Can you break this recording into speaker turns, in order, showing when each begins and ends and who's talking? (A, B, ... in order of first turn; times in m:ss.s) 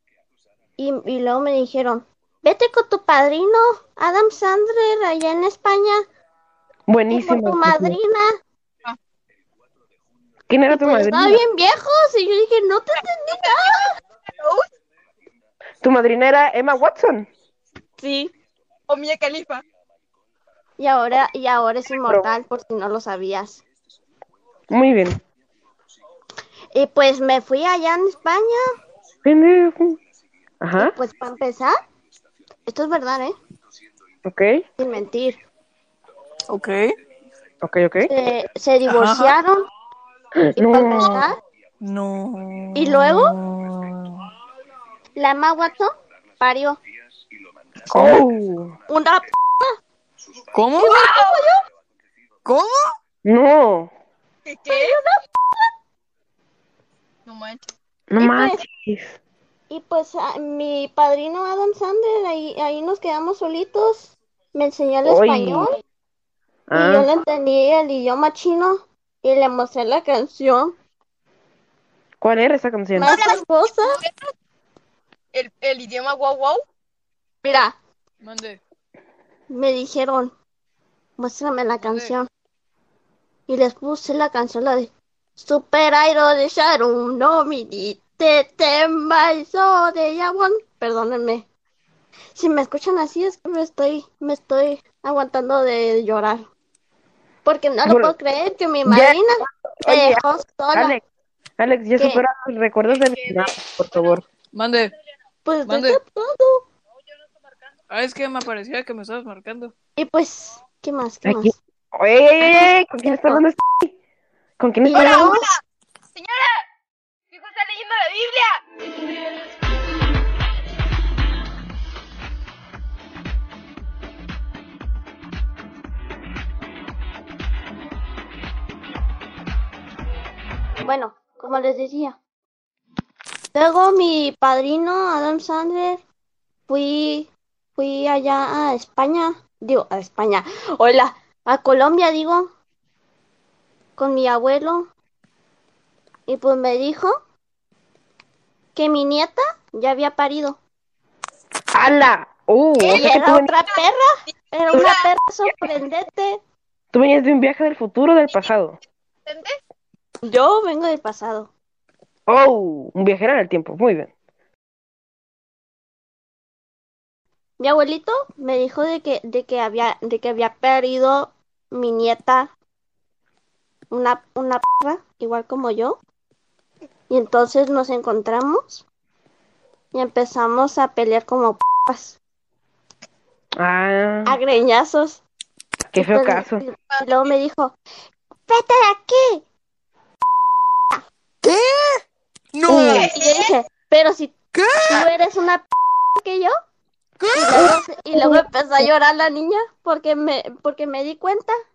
0:00.8-0:06.0 A
0:06.9-0:08.0 B
0:07.1-0:08.3 A
0:10.5-0:11.4 B
0:10.7-0:13.8 A
0:13.3-0:14.6 C
0:15.8-0:17.3 B
0:18.0-0:18.3 A
0:18.9-0:19.6 C
0:20.8-0:23.6 A
0:24.7-0:25.2 B
0:26.7-0:28.6 A
0:29.2-0:30.0 B
0:30.6-0:31.0 B
0:30.8-0:31.7 A
0:32.6-0:33.3 A
0:34.2-0:34.6 B
0:34.8-0:35.4 A
0:36.5-0:36.8 D
0:37.6-0:38.1 B
0:38.0-0:39.6 A
0:38.9-0:39.4 D
0:40.4-0:41.2 B
0:40.6-0:41.4 A
0:41.8-0:44.3 D
0:42.7-0:43.3 A
0:45.1-0:46.8 A
0:47.9-0:48.7 B
0:48.9-0:49.7 A
0:50.5-0:50.9 D
0:50.8-0:51.6 A
0:50.8-0:51.5 C
0:52.4-0:52.8 D
0:53.2-0:53.9 B
0:54.4-0:54.9 C
0:54.7-0:55.2 A
0:57.2-0:57.7 C
0:58.1-0:59.2 B
0:58.2-0:58.6 A
0:59.7-1:05.8 A
1:05.0-1:05.7 B
1:06.7-1:07.1 B
1:06.7-1:10.8 A
1:12.2-1:13.1 B
1:12.9-1:14.0 A
1:13.0-1:14.3 C
1:15.3-1:16.6 C
1:17.4-1:17.8 A
1:18.2-1:18.6 D
1:19.5-1:20.3 A
1:21.2-1:22.3 A
1:21.8-1:22.1 D
1:23.5-1:31.5 A
1:32.3-1:36.5 A
1:37.4-1:41.0 A
1:37.8-1:38.1 B
1:38.8-1:41.0 B
1:41.6-1:44.2 B
1:42.0-1:42.2 A
1:44.5-1:44.9 D
1:45.4-1:46.7 A
1:45.6-1:46.0 D
1:47.9-1:49.7 D
1:50.0-1:51.5 A
1:51.2-1:54.0 B
1:52.4-1:53.4 A
1:54.6-1:55.4 B
1:54.8-1:55.4 A
1:54.9-1:55.6 C
1:56.1-1:56.6 C
1:57.3-1:58.6 C
2:10.8-2:12.2 A
2:13.5-2:16.0 A
2:16.7-2:22.5 A
2:24.0-2:24.9 A
2:26.3-2:27.1 A
2:28.7-2:30.6 A
2:31.7-2:33.5 B
2:32.8-2:33.0 C
2:32.9-2:36.4 A
2:34.7-2:35.1 C
2:36.9-2:38.8 B
2:39.2-2:39.5 C
2:40.2-2:41.5 A
2:42.3-2:44.1 B
2:47.6-2:52.5 A
2:53.9-2:56.0 A
2:57.1-2:58.8 A
2:59.9-3:02.2 A
3:03.6-3:04.4 B
3:04.2-3:05.2 A
3:05.9-3:06.6 B
3:06.0-3:07.8 A
3:08.4-3:09.4 A
3:11.4-3:13.1 D
3:12.7-3:13.1 B
3:12.9-3:13.5 C
3:13.1-3:14.3 A
3:14.5-3:15.0 D
3:14.9-3:16.5 A
3:17.2-3:17.6 D
3:17.3-3:21.5 A
3:18.1-3:18.4 B